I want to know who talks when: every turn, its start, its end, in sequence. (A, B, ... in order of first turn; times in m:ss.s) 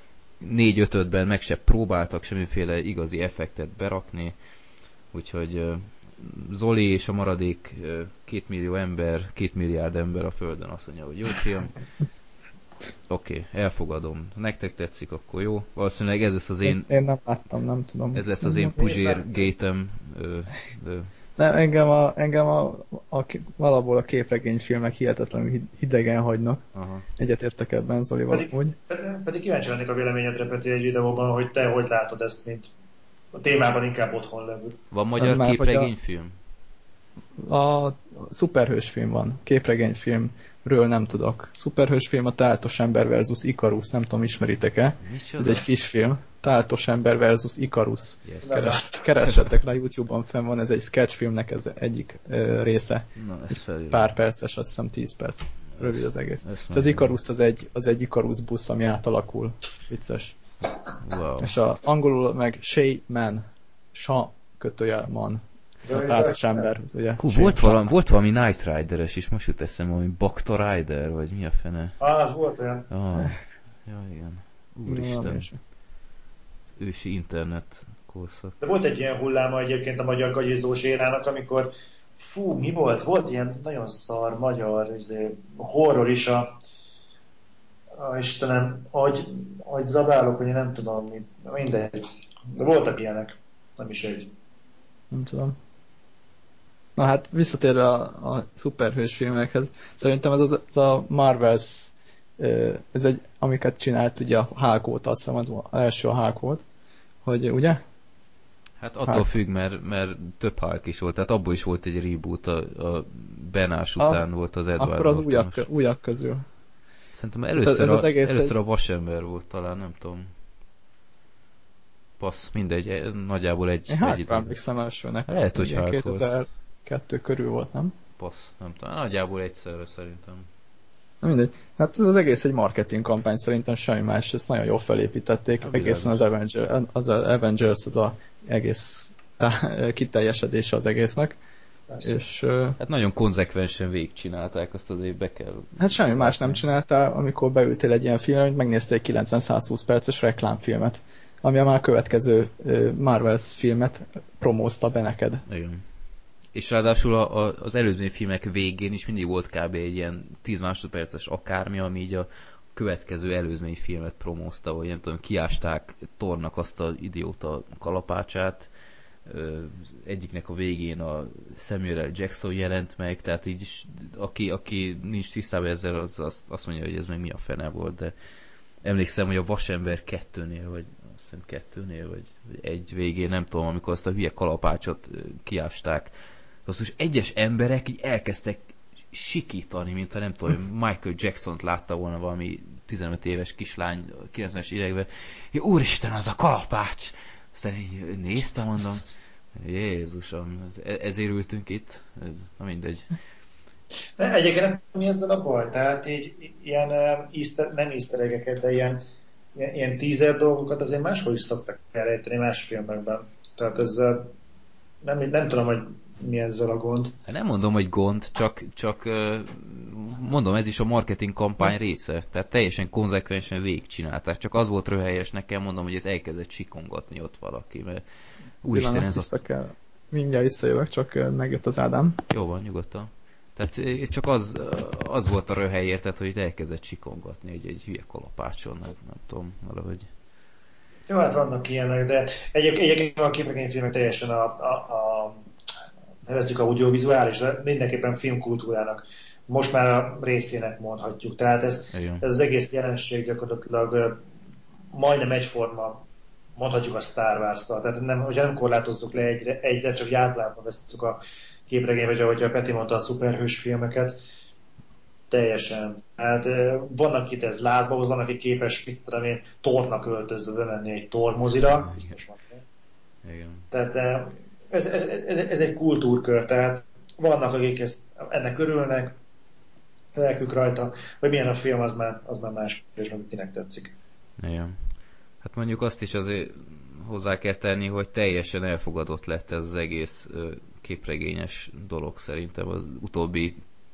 0:00.4-0:04.4 A
0:05.1-0:11.8 A
0:13.1-0:16.9 A
0:16.7-0:18.8 B
0:18.1-0:21.1 A
0:18.9-0:19.2 C
0:21.4-0:26.6 B
0:26.7-0:27.1 A
0:27.2-0:28.8 B
0:28.3-0:32.7 C
0:33.3-0:34.8 C
0:34.9-0:36.4 A
0:35.2-0:35.9 B
0:37.4-0:53.1 B
0:45.0-0:45.7 A
0:48.2-0:49.5 A
0:48.4-0:48.8 C
0:53.2-0:54.1 A
0:53.9-1:00.4 B
0:55.7-0:57.2 A
1:01.0-1:01.5 A
1:01.4-1:07.8 B
1:05.9-1:06.7 C
1:07.2-1:12.0 A
1:12.0-1:12.9 C
1:12.9-1:15.5 A
1:14.9-1:15.6 B
1:16.8-1:18.6 A
1:18.6-1:26.5 C
1:28.0-1:34.3 C
1:35.1-1:35.6 B
1:37.0-1:46.6 B
1:47.2-1:47.8 B
1:48.8-1:55.7 A
1:54.0-1:54.2 B
1:54.8-1:56.4 B
1:57.2-2:00.3 A
1:57.6-1:58.5 B
2:02.2-2:04.6 A
2:03.9-2:07.9 B
2:05.3-2:06.3 A
2:08.2-2:10.5 A
2:11.2-2:21.4 B
2:15.6-2:16.2 A
2:21.9-2:22.1 C
2:22.0-2:22.8 B
2:22.8-2:26.6 A
2:25.8-2:35.4 B
2:35.5-2:35.8 A
2:36.5-2:48.7 A
2:49.3-2:58.1 A
2:58.8-3:06.1 A
3:06.7-3:23.1 A
3:24.2-3:29.0 C
3:29.6-3:34.3 C
3:35.0-3:37.2 C
3:37.3-3:48.0 A
3:48.6-3:49.3 A
3:48.7-3:52.2 B
3:52.3-4:00.1 A
4:01.1-4:05.4 C
4:06.3-4:14.2 C
4:11.9-4:12.2 A
4:14.9-4:16.0 C
4:16.6-4:24.2 C
4:25.3-4:32.6 C
4:31.8-4:32.2 A
4:33.2-4:33.7 A
4:33.7-4:39.2 C
4:40.2-4:43.9 C
4:44.4-4:44.8 A
4:45.4-4:53.6 A